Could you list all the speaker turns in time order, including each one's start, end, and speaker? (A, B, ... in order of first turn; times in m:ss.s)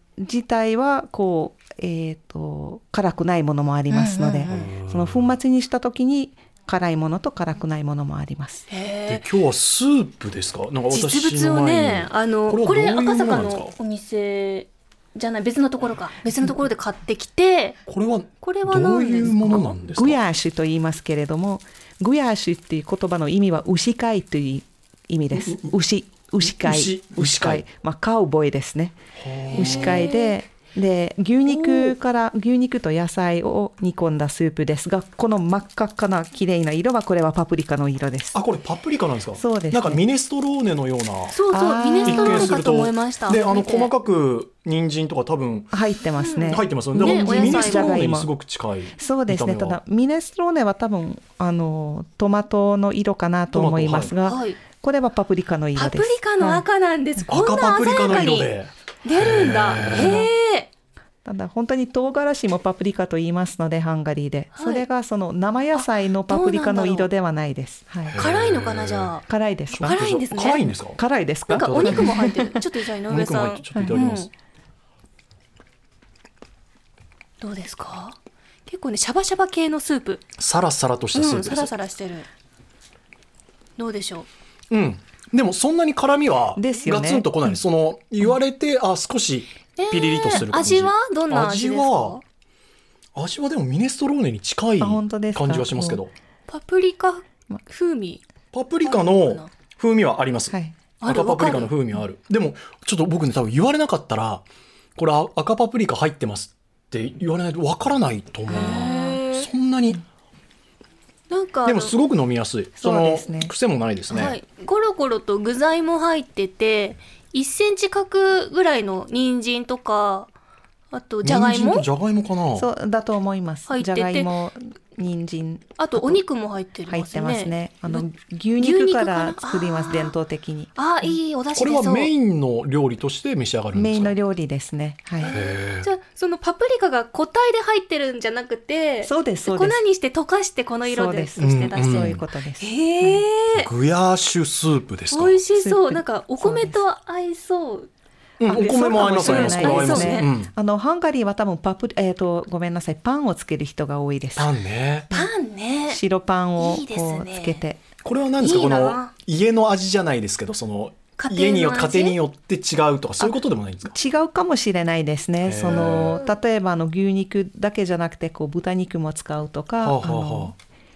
0:00.2-0:08.7 A
0:03.9-0:04.6 B
0:04.5-0:05.3 C
0:08.7-0:09.2 B
0:09.1-0:13.7 C
0:10.9-0:17.8 B
0:17.9-0:20.2 C
0:18.4-0:19.7 B
0:19.5-0:29.0 A
0:25.3-0:25.7 C
0:26.4-0:27.6 C
0:29.2-0:30.1 C
0:29.5-0:30.3 B
0:29.5-0:38.4 A
0:31.4-0:32.0 C
0:38.3-0:41.4 C
0:39.4-0:40.0 A
0:41.3-0:43.9 B
0:41.5-0:42.8 A
0:42.0-0:45.7 C
0:45.7-0:48.3 A
0:46.2-0:48.1 B
0:46.4-0:49.8 C
0:49.0-0:56.6 A
0:53.5-0:54.1 C
0:54.2-0:54.6 B
0:55.7-0:58.5 B
0:57.3-1:00.3 C
0:59.0-1:00.7 B
0:59.8-1:00.3 A
1:01.2-1:08.2 A
1:04.5-1:04.8 B
1:05.8-1:07.1 B
1:08.1-1:09.2 C
1:08.2-1:10.6 B
1:09.3-1:09.9 A
1:09.8-1:12.2 C
1:11.0-1:12.6 A
1:11.5-1:14.3 B
1:13.1-1:14.3 C
1:17.4-1:20.2 B
1:20.4-1:21.7 C
1:21.1-1:22.3 B
1:23.8-1:24.3 B
1:24.7-1:32.2 C
1:26.6-1:27.6 A
1:29.8-1:32.2 B
1:33.1-1:36.1 C
1:34.8-1:36.0 A
1:36.5-1:38.2 B
1:38.5-1:44.4 C
1:38.8-1:39.5 B
1:41.0-1:41.7 B
1:45.0-1:50.0 C
1:48.5-1:49.2 A
1:48.5-1:49.5 B
1:51.3-1:51.9 B
1:51.6-1:54.4 C
1:52.8-1:53.5 A
1:54.1-2:00.3 B
2:00.9-2:01.8 B
2:01.2-2:02.7 C
2:02.6-2:06.2 A
2:03.7-2:04.3 B
2:05.8-2:08.0 B
2:06.9-2:11.0 A
2:08.6-2:10.1 B
2:10.8-2:12.1 B
2:11.5-2:14.2 C
2:13.7-2:15.4 A
2:15.2-2:23.7 B
2:15.3-2:15.9 C
2:19.0-2:19.8 A
2:20.9-2:23.2 A
2:21.4-2:22.2 C
2:23.5-2:25.4 C
2:25.1-2:27.9 B
2:25.6-2:26.8 A
2:28.4-2:30.5 C
2:28.4-2:30.3 B
2:28.5-2:34.5 A
2:34.3-2:35.1 C
2:35.1-2:36.0 B
2:35.9-2:37.8 A
2:36.6-2:37.6 B
2:38.0-2:44.0 C
2:38.4-2:39.1 B
2:41.2-2:42.2 B
2:43.9-2:50.5 A
2:45.4-2:46.2 C
2:45.7-2:46.3 B
2:49.8-2:50.5 C